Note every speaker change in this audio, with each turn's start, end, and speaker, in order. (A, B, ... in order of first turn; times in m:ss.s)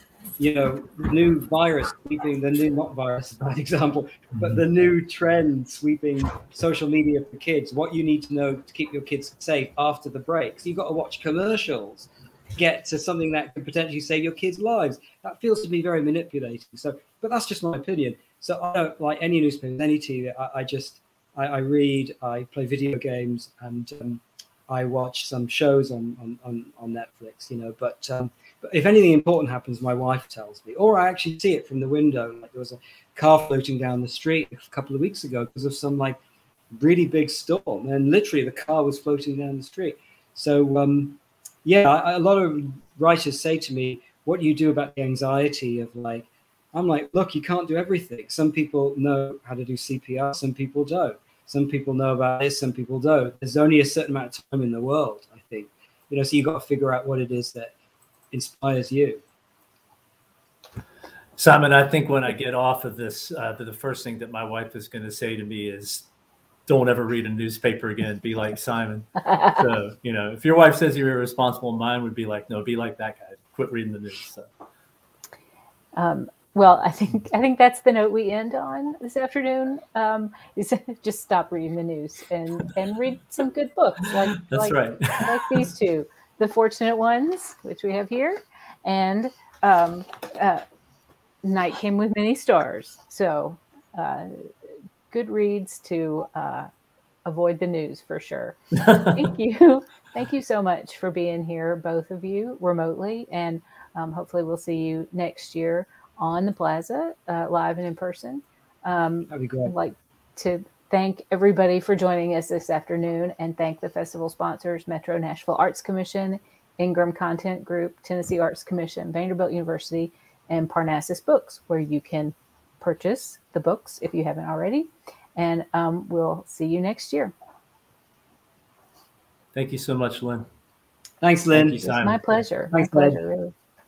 0:00.4-0:36.2 A
0:04.4-0:04.6 B
0:36.7-0:57.7 A
0:58.3-0:59.2 A
1:01.4-1:06.1 B
1:06.7-1:14.5 B
1:16.0-1:30.6 C
1:24.4-1:25.6 B
1:31.4-1:34.3 C
1:35.1-1:36.7 C
1:37.2-2:07.3 C
1:49.3-1:49.7 A
2:09.5-2:10.4 B
2:11.2-2:11.9 A
2:11.5-2:12.4 B
2:11.8-2:13.5 C
2:12.7-2:13.2 A